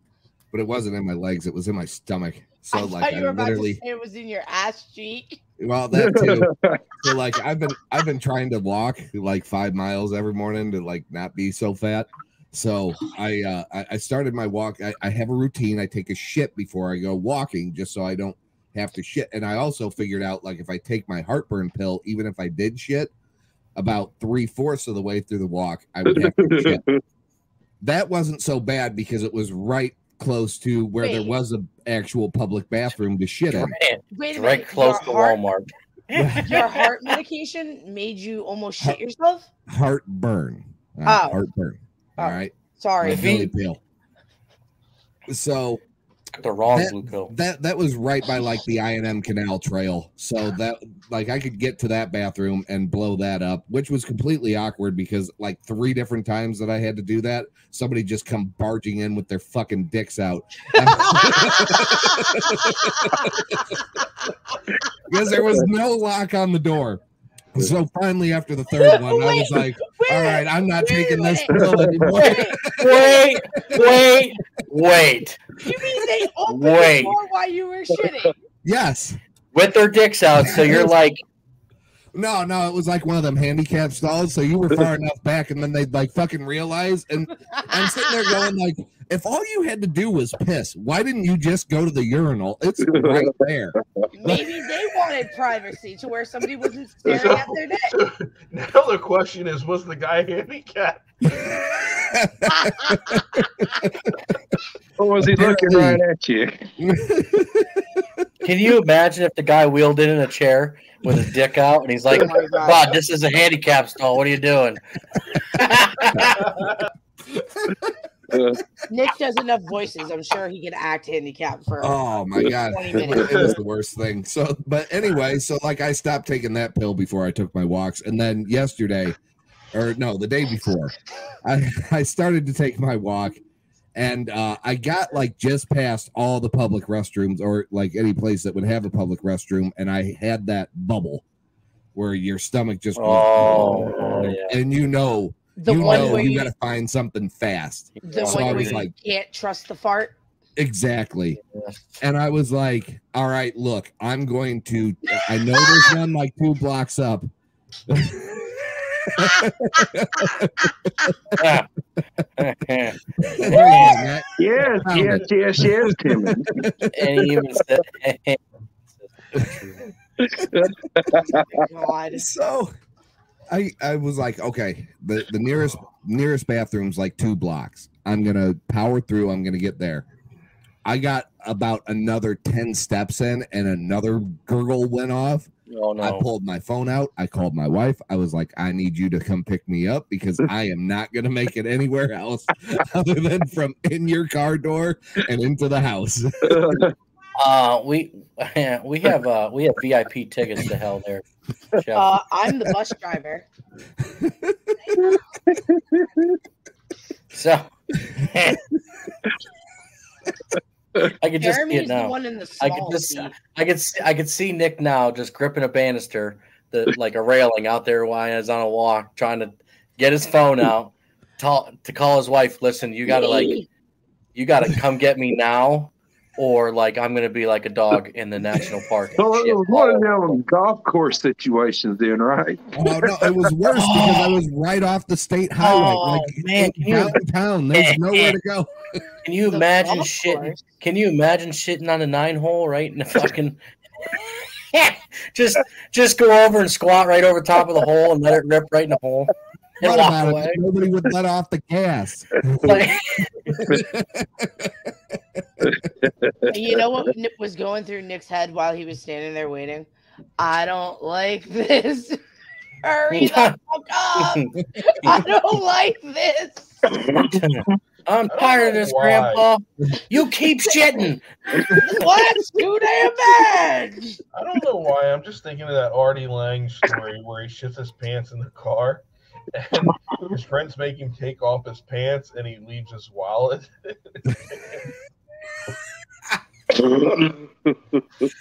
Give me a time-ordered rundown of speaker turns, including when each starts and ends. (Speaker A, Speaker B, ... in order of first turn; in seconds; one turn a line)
Speaker A: 0.5-3.8
Speaker B: 2.7-5.4
Speaker A: 5.6-23.1
Speaker C: 5.9-6.8
Speaker A: 23.8-26.8
Speaker C: 26.1-27.0
Speaker A: 27.8-33.8
Speaker B: 31.0-31.3
Speaker D: 33.5-36.9
Speaker B: 34.1-35.4
Speaker A: 36.1-36.6
Speaker B: 36.4-39.5
Speaker A: 39.7-43.8
Speaker B: 41.0-41.4
Speaker B: 42.2-43.4
Speaker D: 43.1-43.5
Speaker A: 45.3-45.8
Speaker D: 46.4-47.3
Speaker A: 46.7-63.5
Speaker B: 61.1-63.4
Speaker A: 65.1-67.0
Speaker A: 67.5-73.1
Speaker B: 68.8-73.2
Speaker C: 71.5-72.1
Speaker D: 72.2-75.5
Speaker A: 73.7-74.0
Speaker B: 75.6-78.3
Speaker D: 76.5-77.1
Speaker A: 78.6-79.2
Speaker D: 79.5-81.2
Speaker A: 80.3-81.0
Speaker A: 82.1-94.5
Speaker C: 92.8-93.3
Speaker B: 94.1-97.9
Speaker E: 97.0-101.0
Speaker A: 102.0-103.9
Speaker C: 105.0-106.7
Speaker A: 105.2-106.0
Speaker A: 106.8-107.8
Speaker D: 108.4-114.8
Speaker B: 112.1-112.8
Speaker D: 115.5-116.6
Speaker A: 117.4-117.7
Speaker C: 118.3-118.6
Speaker B: 118.9-123.5
Speaker A: 121.8-129.2
Speaker C: 123.0-123.2
Speaker A: 129.7-130.9
Speaker A: 131.4-133.4
Speaker A: 133.9-141.2
Speaker A: 141.9-148.9
Speaker D: 142.9-144.6
Speaker B: 145.6-146.5
Speaker D: 145.8-146.3
Speaker D: 147.9-148.8
Speaker B: 148.0-150.1
Speaker A: 150.6-151.4
Speaker D: 151.5-151.8
Speaker A: 152.0-157.3
Speaker A: 157.9-158.3
Speaker A: 159.2-161.1
Speaker D: 161.4-161.7
Speaker D: 162.4-164.0
Speaker A: 163.2-166.9
Speaker C: 164.4-166.6
Speaker D: 166.9-168.4
Speaker D: 169.0-169.8
Speaker C: 170.2-171.4
Speaker B: 171.3-172.3
Speaker A: 172.1-172.7
Speaker A: 173.5-180.1
Speaker A: 180.8-196.8
Speaker D: 185.7-186.2
Speaker C: 196.5-196.9
Speaker D: 197.3-202.1
Speaker B: 201.9-203.5
Speaker A: 204.2-204.5
Speaker D: 207.3-208.6
Speaker D: 211.2-223.6
Speaker B: 211.4-213.3
Speaker B: 223.1-223.7
Speaker D: 224.3-230.4
Speaker C: 229.2-232.6
Speaker A: 232.7-238.7
Speaker D: 233.7-234.4
Speaker D: 235.6-237.2
Speaker D: 237.7-238.4
Speaker D: 239.2-243.6
Speaker B: 239.5-240.6
Speaker D: 244.1-250.6
Speaker A: 249.8-252.9
Speaker D: 252.6-253.6
Speaker A: 253.5-254.9
Speaker C: 255.7-256.8
Speaker B: 256.5-259.9
Speaker B: 260.4-262.2
Speaker B: 262.8-266.8
Speaker D: 263.1-263.6
Speaker D: 264.2-264.5
Speaker C: 266.9-267.4
Speaker D: 267.1-271.2
Speaker E: 268.3-269.4
Speaker A: 271.7-272.6
Speaker B: 271.7-274.2
Speaker E: 274.3-284.8
Speaker C: 286.7-287.7